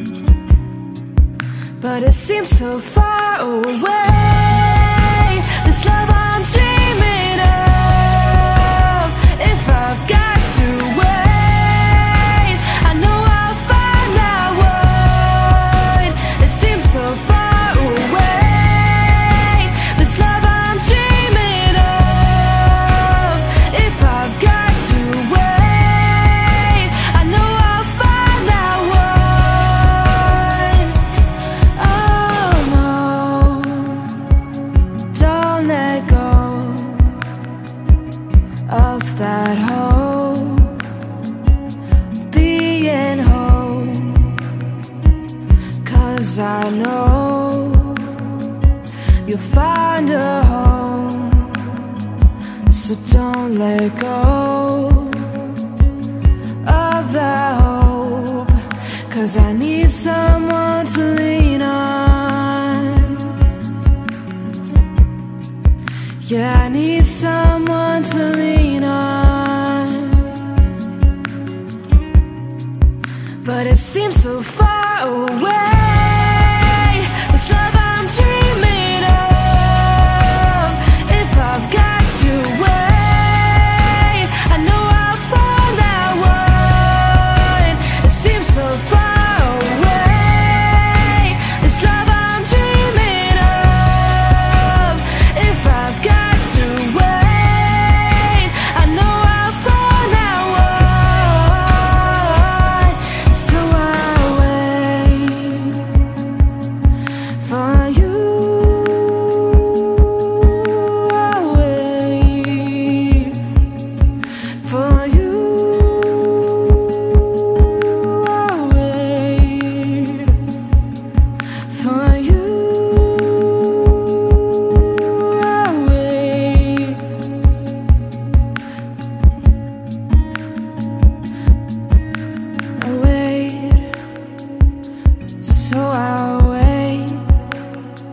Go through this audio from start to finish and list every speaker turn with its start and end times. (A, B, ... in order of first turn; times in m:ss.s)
0:01.8-0:31.1 A
0:31.7-0:34.4 A
0:35.1-0:37.2 A
0:38.7-0:40.9 A
0:42.3-0:44.5 A
0:45.8-0:48.4 A
0:49.2-0:51.9 A
0:52.7-0:55.6 A
0:56.6-1:03.4 A
1:06.2-1:10.4 A
1:13.4-1:46.1 A
1:47.4-1:53.6 A
1:54.6-2:00.5 A
2:01.6-2:07.3 A
2:12.8-2:14.0 A
2:15.4-2:17.4 A